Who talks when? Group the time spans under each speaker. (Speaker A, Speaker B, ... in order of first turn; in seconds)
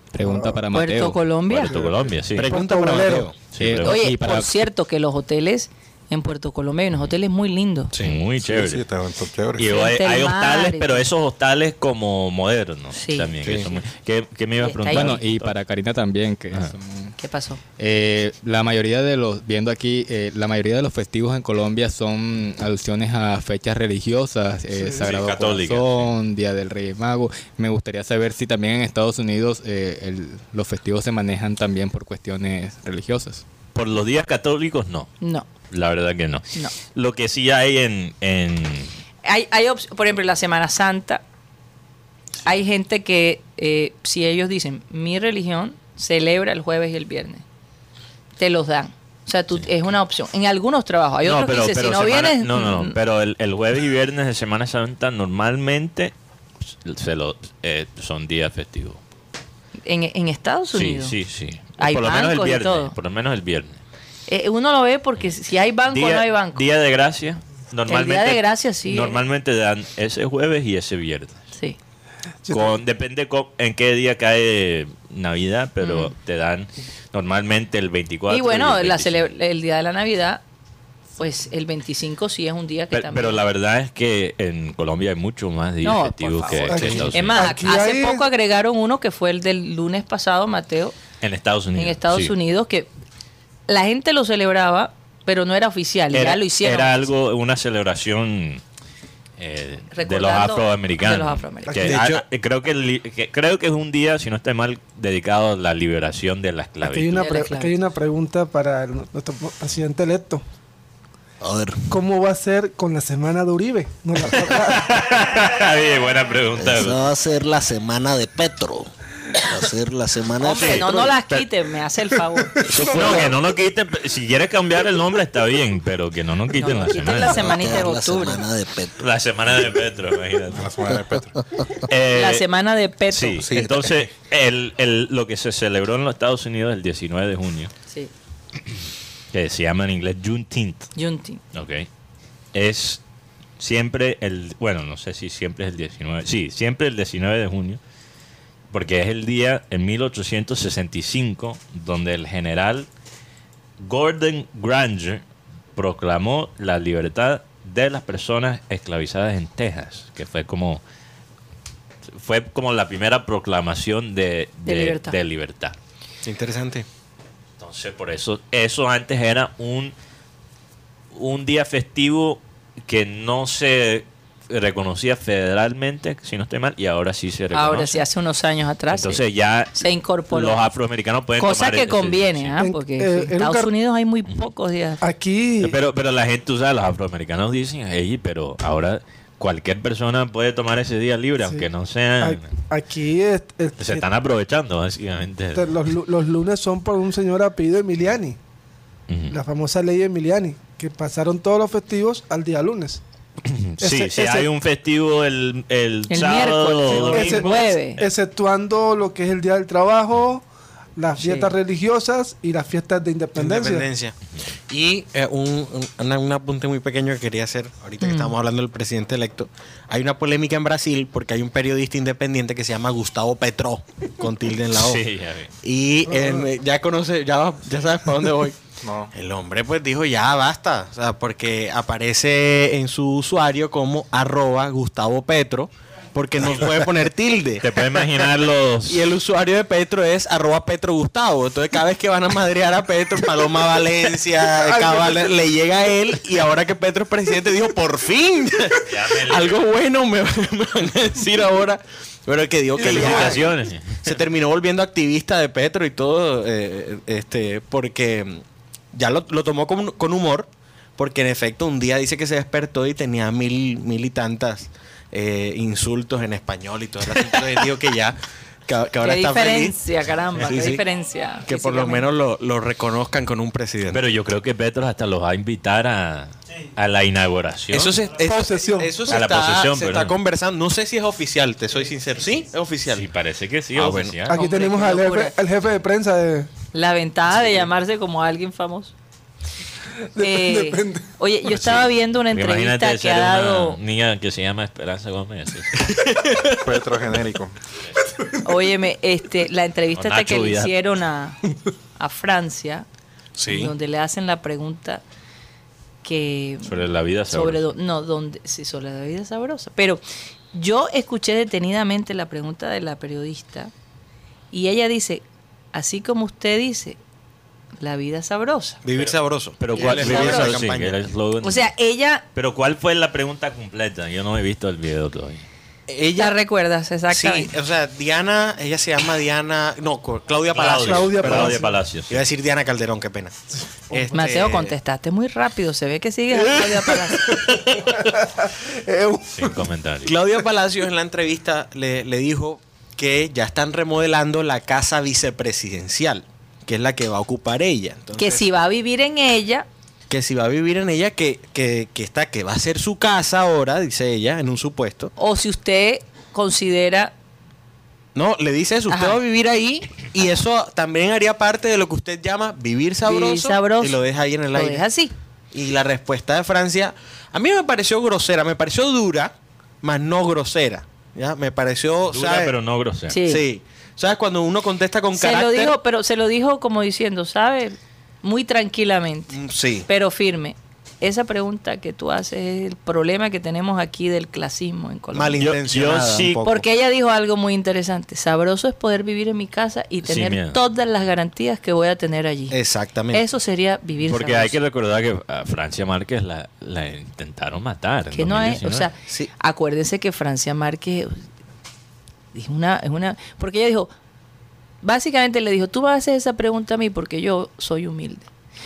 Speaker A: 0.1-1.4, 3.6-4.6, 14.9-17.1, 17.8-33.4
Speaker B: 0.2-0.7, 1.7-3.3, 72.5-72.7, 86.7-88.3, 101.7-102.0, 106.8-110.4, 111.9-115.0, 122.4-123.3, 182.6-183.7, 185.0-185.8, 192.2-194.1, 195.5-198.4, 199.3-203.0, 203.8-204.5, 206.9-210.4, 211.0-213.9, 226.1-226.4, 244.6-245.3, 252.7-253.4, 278.2-279.0, 284.3-286.5, 290.1-291.1, 330.7-331.7, 333.9-334.2, 336.6-339.6
Speaker C: 0.7-1.7, 3.8-7.9, 9.6-11.0, 12.9-13.3, 14.6-15.2, 17.2-17.6, 35.2-35.5, 39.2-41.2, 42.4-47.4, 48.4-52.9, 59.8-61.2, 61.8-62.9, 64.3-66.6, 67.9-69.2, 75.8-76.1, 78.3-80.4, 81.2-83.4, 85.8-91.0, 91.7-92.9, 93.7-97.0, 99.9-101.8, 107.1-107.8, 120.4-122.6, 126.5-128.4, 132.1-133.6, 140.9-141.4, 164.7-165.2, 177.5-179.2, 179.8-180.6, 181.4-185.0, 206.1-208.0, 211.2-211.5, 218.0-218.3, 269.0-272.1, 284.3-285.3, 286.7-288.9, 290.2-293.8, 298.4-301.4, 302.0-302.9, 303.4-305.0, 306.0-310.0, 310.5-313.7, 314.5-317.0, 317.8-318.8, 319.7-320.6, 321.4-322.2, 326.1-327.5, 334.1-337.3, 348.1-349.6, 355.2-357.1, 358.9-359.2, 363.0-365.1, 373.1-373.4, 375.1-385.4, 386.4-392.6, 393.1-394.6, 398.1-401.2, 402.3-403.9, 404.8-408.3
Speaker D: 1.5-2.5, 3.4-4.2, 8.0-8.8, 9.6-15.6, 24.7-26.1, 33.7-35.1, 35.7-39.0, 51.2-56.1, 56.7-59.0, 60.7-63.8, 65.9-71.4, 72.5-79.3, 82.9-87.6, 91.2-92.3, 96.1-98.6, 99.4-107.2, 114.3-117.0, 120.5-121.5, 122.7-127.7, 129.0-130.7, 131.8-132.5, 133.1-137.7, 139.3-140.9, 141.5-141.9, 142.5-143.0, 143.6-147.8, 148.7-152.9, 153.8-155.2, 155.8-160.8, 162.1-165.8, 167.6-169.9, 171.1-178.0, 178.9-182.5, 185.6-192.5, 193.8-195.7, 199.1-199.3, 203.4-208.1, 224.7-225.5, 237.6-239.0, 248.9-249.6, 252.8-254.0, 273.9-278.0, 279.1-280.1, 282.9-284.3, 291.5-295.9, 299.9-300.7, 306.6-307.7, 318.9-321.7, 322.3-325.4, 330.5-332.2, 339.3-340.1, 372.1-373.2, 385.4-386.4, 390.0-390.6, 394.1-398.9
Speaker E: 2.3-3.4, 13.4-13.7, 101.9-102.2, 166.2-166.9, 213.3-214.1, 214.7-225.0, 225.6-228.6, 229.1-238.3, 238.9-269.8, 270.4-270.8, 271.4-274.0, 277.7-283.1, 283.7-284.3, 295.8-296.7, 303.4-303.7, 318.8-321.0, 325.9-326.3, 327.1-333.4, 333.9-334.7, 340.0-348.4, 350.1-355.1, 358.1-364.9, 365.5-372.5, 373.2-375.8, 379.3-379.9, 385.1-386.6, 392.5-393.2
Speaker F: 8.4-9.8, 130.5-131.4, 133.4-134.1, 228.8-229.1, 296.6-297.6
Speaker G: 111.4-111.9, 116.5-118.9, 119.4-121.1, 122.7-123.3, 127.3-129.0